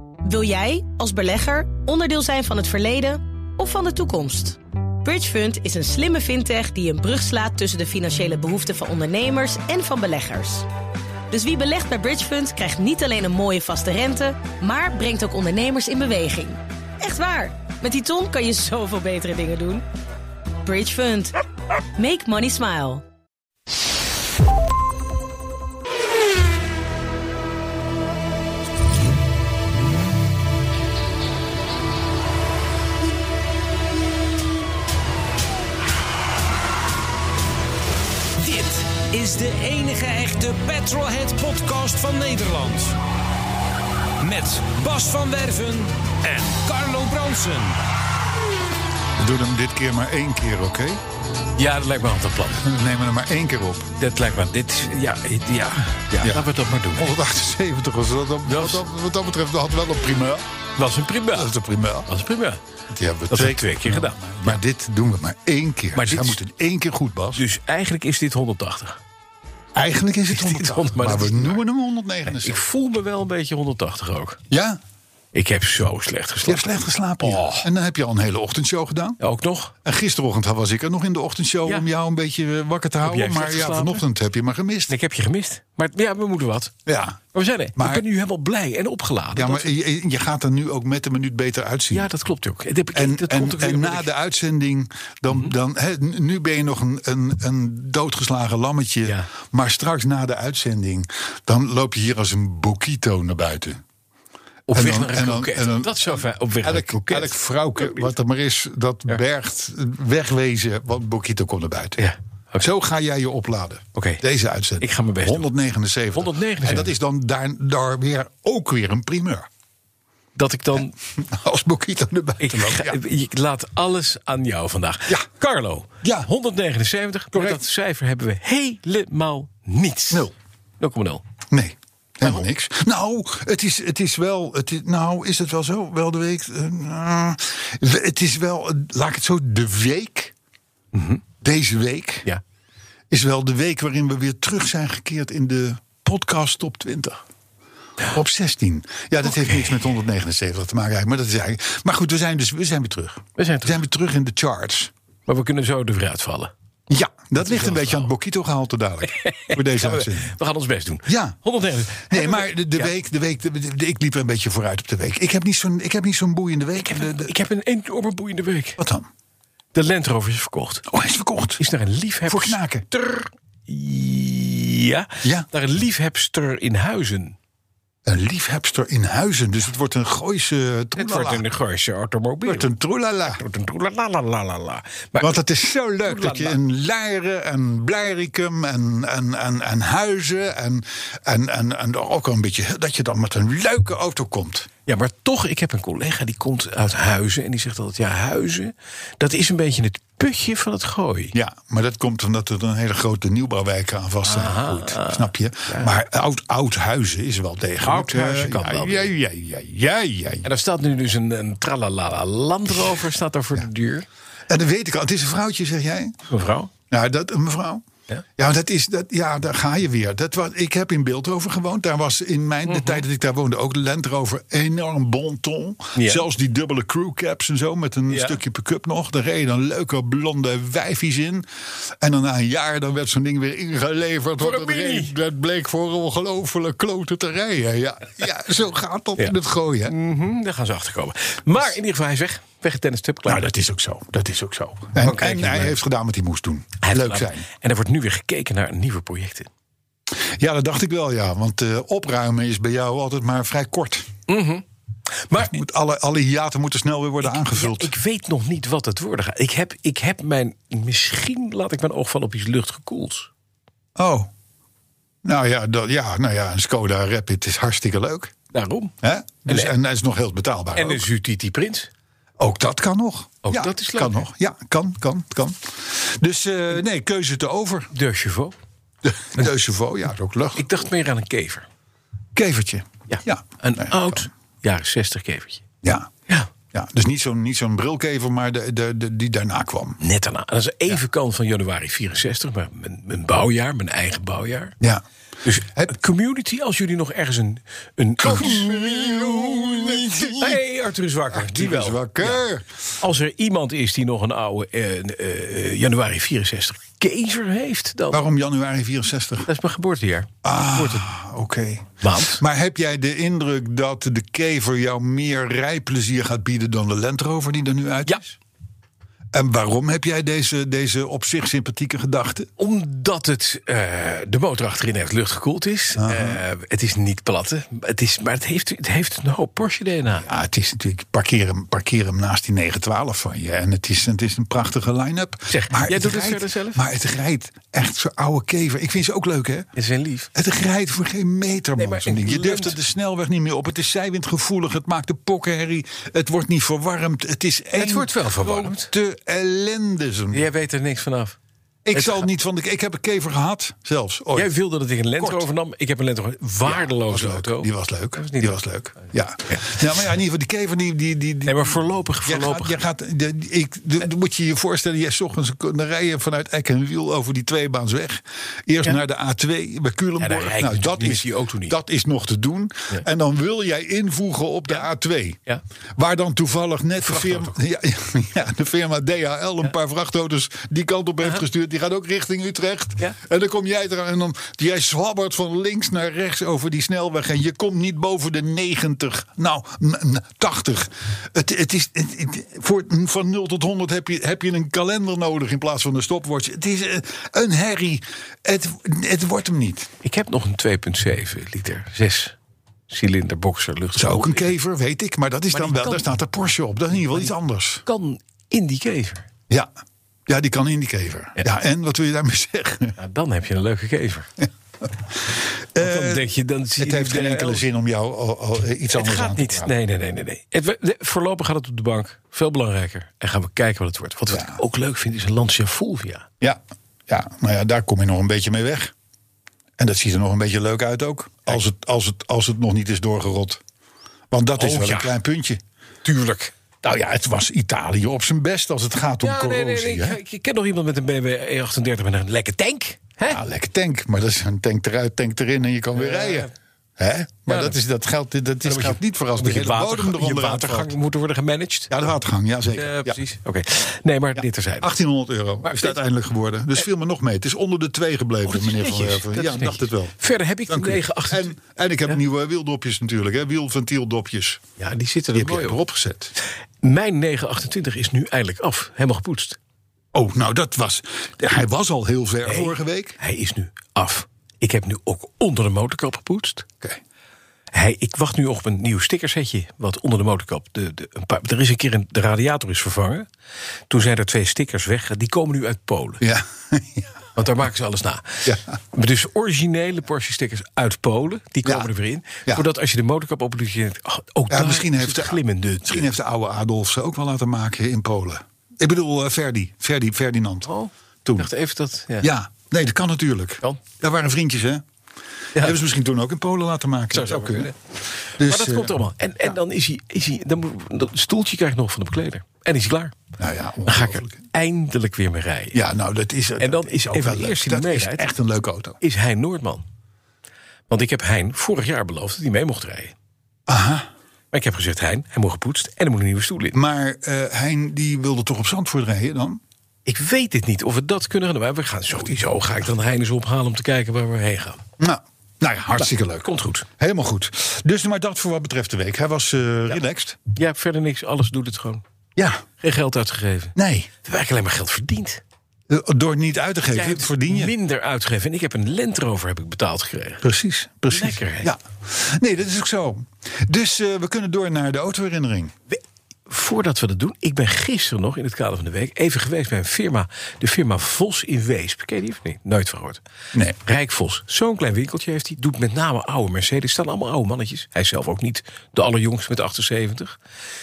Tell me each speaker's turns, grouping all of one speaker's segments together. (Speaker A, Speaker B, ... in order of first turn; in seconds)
Speaker A: 0.2-10.7, 11.3-19.8, 20.6-21.3, 22.0-23.0
Speaker B: 38.4-43.0, 44.2-47.8
Speaker C: 49.2-51.0, 52.6-53.9, 56.2-60.4, 61.3-62.1, 62.9-67.4, 69.8-72.6, 74.5-74.8, 76.5-79.2, 79.8-85.0, 86.9-87.2, 87.8-88.0, 89.3-92.1, 92.9-103.8, 104.7-112.1, 112.6-119.5, 121.2-123.0, 126.0-126.3, 127.3-127.6, 131.5-140.3, 141.4-142.3, 143.1-147.2, 148.1-154.9, 156.9-160.3, 161.1-161.4, 162.1-167.3, 168.8-169.1, 170.9-171.6, 172.3-172.9, 178.1-181.4, 182.4-183.4, 185.2-194.7, 201.3-210.5, 214.5-216.2, 216.9-217.8, 218.4-231.4, 232.0-239.9, 243.3-247.4, 250.1-254.1, 255.4-257.9, 264.0-264.3, 265.2-268.3, 269.0-271.1, 272.4-277.9, 279.0-280.7, 282.4-284.3, 285.8-286.1, 286.7-290.0, 298.2-300.6, 301.3-302.7, 308.1-309.5, 310.4-318.3, 319.3-322.5, 326.0-326.4, 330.2-339.7, 340.3-350.5, 351.9-354.5, 355.2-355.4, 356.6-375.4, 376.0-399.9, 403.9-407.8, 410.3-413.0, 414.4-419.7, 424.3-424.6, 426.4-428.9, 429.8-433.6, 434.3-435.6, 436.8-440.2, 443.3-450.9, 451.9-453.2, 454.4-460.1, 460.7-464.6, 465.3-466.3, 470.1-473.2, 486.2-487.1, 491.6-491.9, 494.5-500.7, 501.2-501.5, 502.2-504.8, 505.6-507.7, 508.4-509.6, 513.4-514.4, 515.7-519.0, 523.7-524.1, 526.7-529.6, 535.0-540.4, 542.4-542.6, 543.8-544.1, 545.9-547.7, 550.4-555.7
Speaker D: 51.6-52.6, 54.0-57.1, 58.5-58.8, 60.8-61.5, 62.1-62.6, 63.3-64.6, 66.0-66.4, 67.3-69.0, 70.3-71.6, 72.3-74.4, 75.3-77.7, 79.2-79.7, 83.0-84.0, 84.9-86.7, 87.3-89.7, 91.9-94.1, 104.7-108.1, 112.0-112.7, 114.0-114.2, 114.8-115.5, 116.1-116.9, 120.4-121.0, 122.4-131.2, 140.9-141.2, 149.2-149.8, 153.4-153.8, 155.3-156.5, 157.4-158.1, 159.1-162.9, 166.8-168.8, 169.7-170.9, 171.6-177.4, 181.0-182.7, 183.3-185.3, 186.1-186.6, 194.9-201.3, 204.2-205.9, 207.8-209.1, 210.4-214.1, 216.3-216.7, 222.7-223.0, 225.9-226.2, 228.1-228.4, 234.4-235.1, 239.9-243.5, 244.9-245.8, 246.8-249.5, 254.3-254.6, 257.2-263.3, 268.5-268.9, 269.5-269.7, 270.8-271.9, 273.4-274.2, 277.9-278.6, 280.6-281.6, 283.1-285.6, 290.0-294.8, 295.4-302.4, 303.0-308.2, 309.5-311.1, 312.0-312.4, 322.6-330.3, 335.5-336.9, 339.8-340.3, 341.8-342.8, 347.8-348.9, 350.3-351.4, 351.9-352.2, 354.4-358.6, 361.5-362.8, 370.2-371.8, 377.0-377.6, 400.0-402.4, 402.9-404.5, 405.5-406.1, 407.9-409.3, 413.0-414.3, 415.8-417.7, 418.9-426.3, 434.6-435.1, 436.0-436.5, 439.2-443.4, 445.9-446.5, 447.5-447.8, 448.6-451.9, 452.8-454.9, 455.6-456.0, 458.5-461.5, 464.8-465.8, 466.8-469.6, 472.5-476.7, 477.7-483.3, 483.9-486.2, 487.4-496.1, 500.7-502.3, 507.1-507.8, 508.4-513.1, 513.9-515.8, 516.6-518.2, 519.0-519.8, 520.9-523.1, 524.5-526.8, 530.1-534.8, 536.0-536.9, 540.5-542.0, 542.8-545.4, 546.9-550.4, 551.1-551.7, 555.9-563.2, 563.9-570.4